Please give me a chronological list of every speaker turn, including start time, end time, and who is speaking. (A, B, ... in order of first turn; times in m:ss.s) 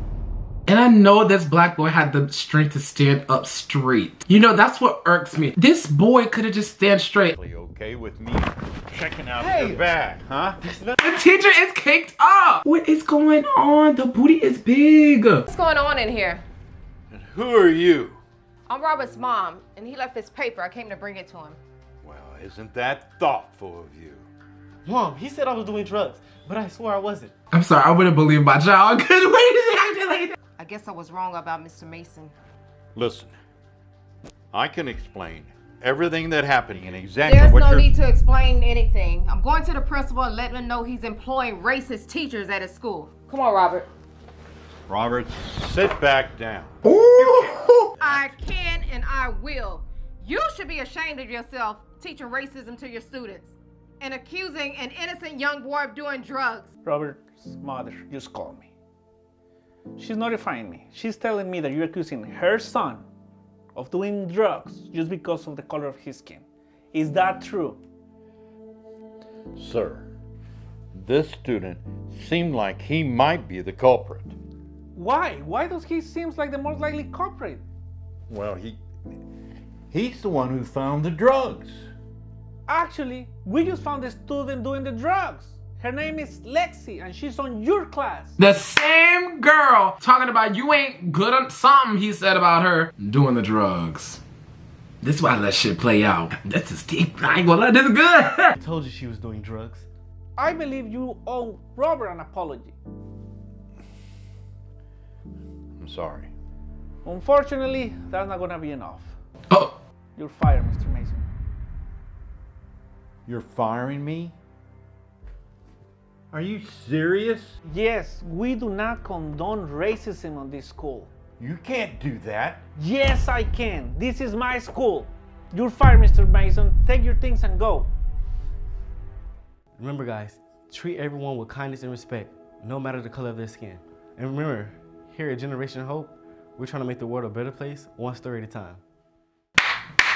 0:00.7-0:07.3 A
0:07.3-0:10.6 B
0:09.4-0:09.8 C
0:10.6-0:11.0 C
0:11.0-0:15.5 A
0:15.5-0:16.4 D
0:17.1-0:18.2 B
0:18.7-0:21.6 D
0:22.0-0:24.3 B
0:24.8-0:27.3 C
0:27.5-0:30.4 A
0:30.6-0:32.3 D
0:33.0-0:33.4 B
0:34.5-0:37.9 B
0:37.2-0:43.9 D
0:44.9-0:46.8 B
0:46.8-0:47.9 A
0:48.0-0:56.7 D
0:56.8-0:58.7 E
1:00.0-1:03.0 E
1:03.8-1:07.8 E
1:09.6-1:10.1 B
1:10.9-1:14.4 B
1:15.0-1:17.6 E
1:18.3-1:18.8 B
1:19.9-1:21.9 B
1:22.7-1:28.4 E
1:28.4-1:34.2 A
1:35.0-1:38.6 A
1:38.6-1:39.8 C
1:40.4-1:42.8 E
1:45.8-1:46.3 B
1:47.0-1:49.1 E
1:49.5-1:49.8 A
1:50.2-1:51.2 E
1:53.3-1:54.4 B
1:56.3-1:57.6 B
1:57.7-2:01.1 E
2:01.4-2:02.6 B
2:02.8-2:07.9 E
2:09.8-2:18.8 C